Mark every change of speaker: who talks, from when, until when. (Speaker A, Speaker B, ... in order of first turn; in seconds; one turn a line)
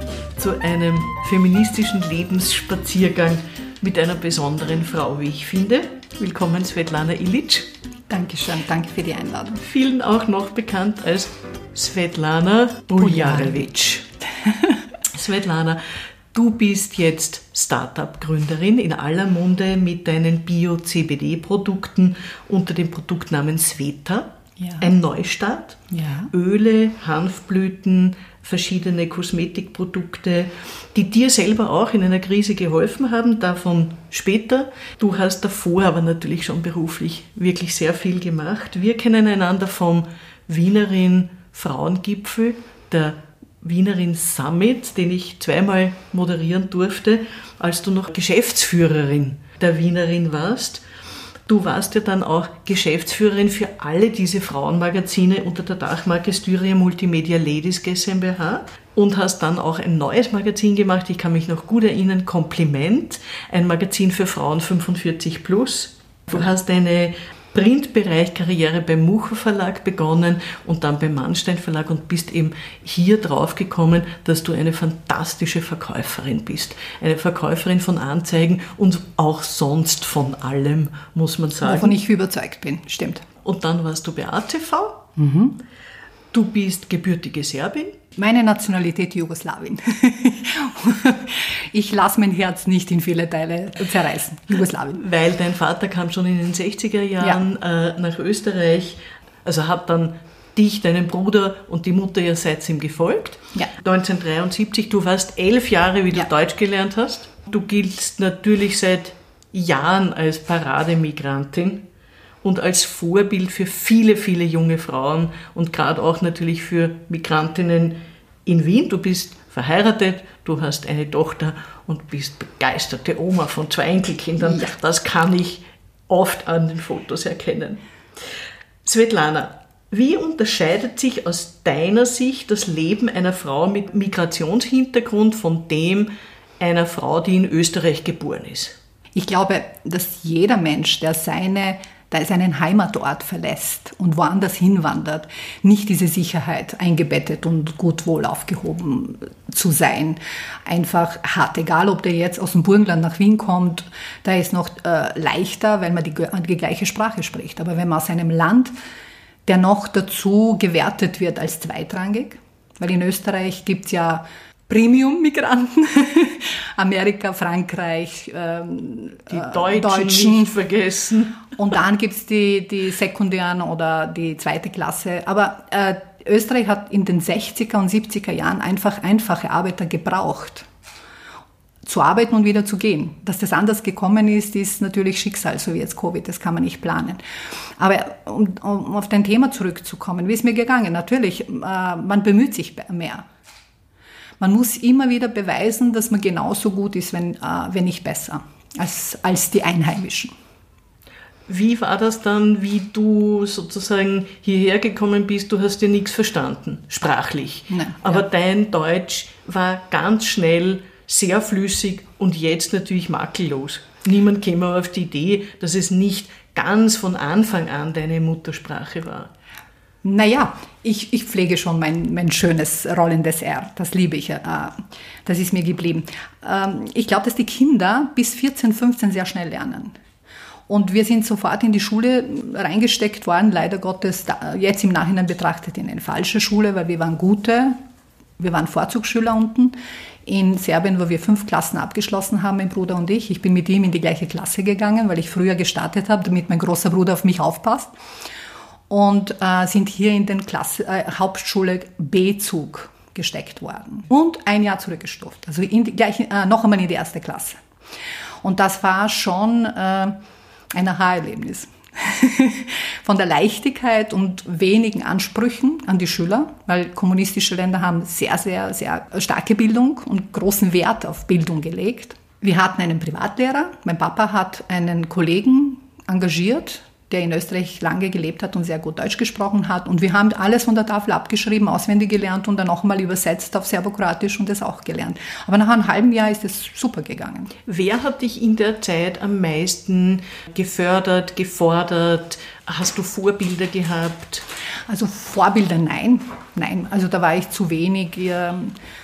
Speaker A: 0.4-7.7
Speaker B: 8.1-9.6
Speaker A: 9.6-14.1
Speaker B: 13.0-13.7
Speaker B: 14.5-14.8
Speaker A: 15.1-15.8
Speaker A: 16.3-50.8
Speaker B: 24.6-24.9
Speaker B: 25.9-26.3
Speaker A: 51.5-82.0
Speaker B: 81.6-83.3
Speaker A: 83.4-85.0
Speaker B: 85.2-85.6
Speaker A: 86.3-88.0
Speaker B: 88.2-95.0
Speaker A: 94.9-111.8
Speaker A: 112.4-128.2
Speaker A: 128.8-136.1
Speaker A: 136.6-138.8
Speaker B: 139.2-158.7
Speaker B: 159.5-170.5
Speaker A: 169.3-171.4
Speaker B: 171.6-180.7
Speaker B: 181.8-187.2
Speaker B: 187.8-193.3
Speaker B: 194.4-200.3
Speaker A: 201.5-219.3
Speaker B: 207.7-208.2
Speaker B: 220.0-229.9
Speaker B: 230.7-237.8
Speaker B: 238.4-247.9
Speaker B: 248.9-257.6
Speaker B: 258.4-260.2
Speaker B: 260.7-287.5
Speaker A: 287.7-294.5
Speaker B: 294.9-298.8